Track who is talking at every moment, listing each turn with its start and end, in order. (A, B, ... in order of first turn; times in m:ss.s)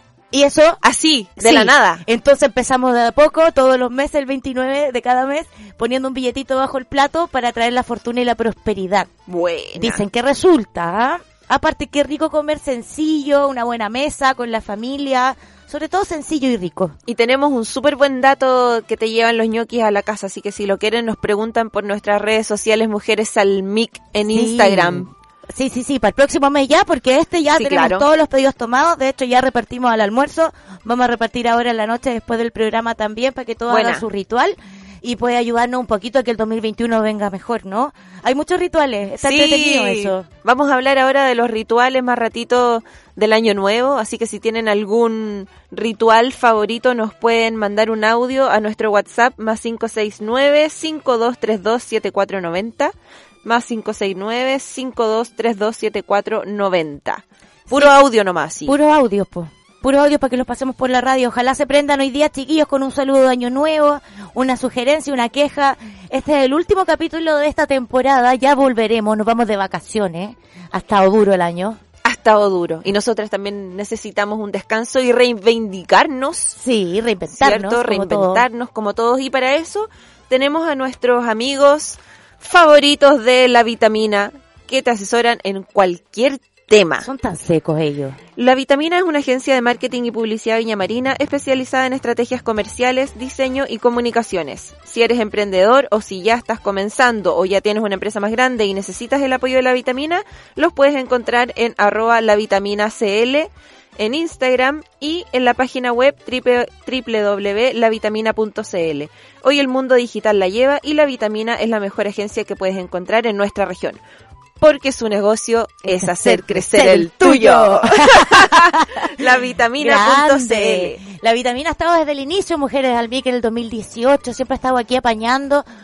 0:00.3-0:00.8 A
0:00.8-0:02.0 B
0:01.4-0:09.1 A
0:09.3-0:10.0 B
0:09.8-0:17.0 A
0:17.1-0:25.1 B
0:24.3-0:40.3 A
0:27.5-0:28.1 B
0:33.7-0:34.0 B
0:39.2-0:52.9 B
0:53.4-0:58.8 B
0:57.7-0:58.0 A
0:58.7-1:11.8 A
1:12.0-1:16.6 B
1:16.6-1:18.5 A
1:17.3-1:27.1 B
1:27.0-1:28.2 A
1:28.4-1:54.0 B
1:54.6-2:01.0 B
1:55.8-1:59.2 A
1:59.8-2:05.6 A